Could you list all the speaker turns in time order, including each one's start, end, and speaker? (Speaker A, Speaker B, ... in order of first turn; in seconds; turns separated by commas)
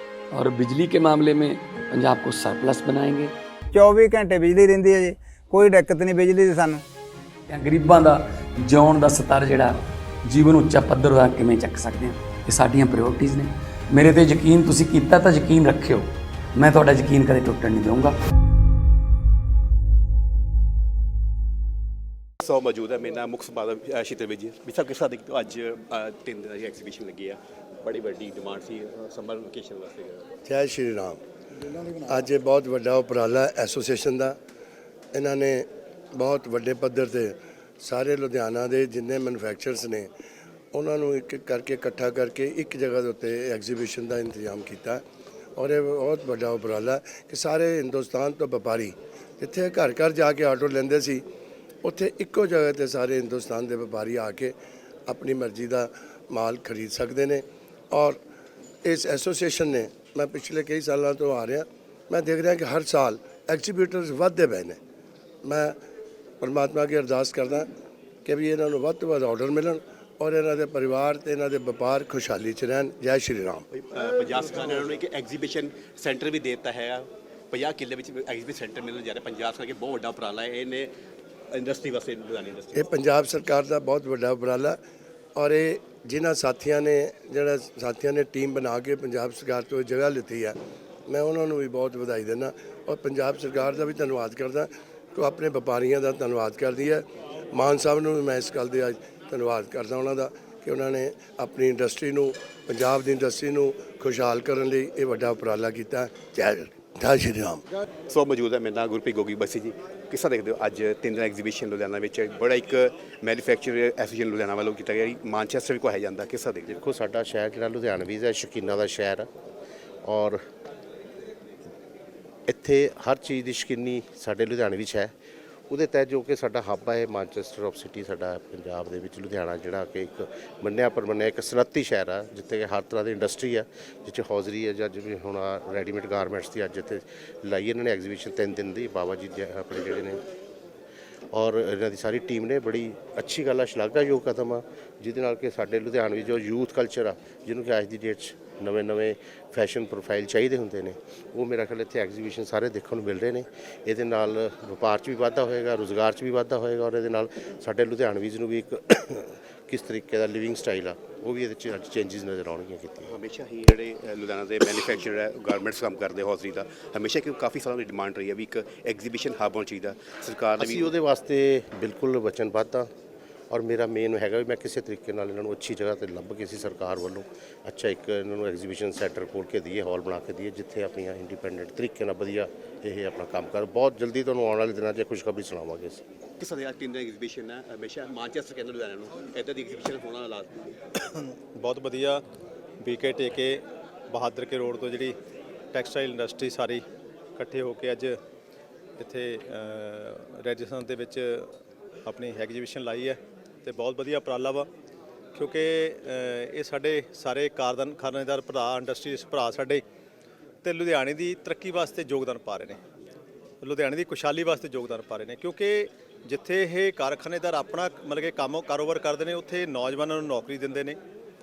Speaker A: 0.3-3.3, Speaker B: 3.7-6.8, Speaker A: 7.5-18.2, Speaker C: 22.4-30.2, Speaker D: 30.4-31.2, Speaker D: 31.8-34.4, Speaker D: 35.1-40.1, Speaker D: 40.7-45.0, Speaker D: 45.6-51.2, Speaker D: 51.8-54.5, Speaker D: 55.1-58.2, Speaker D: 58.8-64.8, Speaker D: 65.4-65.8, Speaker D: 66.4-67.7, Speaker D: 68.2-73.7, Speaker C: 73.7-80.9, Speaker C: 81.5-82.9, Speaker D: 82.7-84.8, Speaker D: 85.4-90.6, Speaker D: 91.1-107.6, Speaker C: 108.1-116.8, Speaker E: 116.7-119.3, Speaker E: 120.0-120.4, Speaker E: 122.5-125.1, Speaker E: 125.7-140.2, Speaker E: 141.3-163.2, Speaker C: 163.1-170.9, Speaker E: 170.6-172.9, Speaker E: 173.5-186.0, Speaker C: 186.4-190.6, Speaker F: 191.0-192.2, Speaker F: 192.8-195.2, Speaker F: 195.7-196.8, Speaker F: 197.4-198.2, Speaker F: 199.0-204.7, Speaker F: 205.3-209.8, Speaker F: 210.6-212.8, Speaker F: 213.6-221.0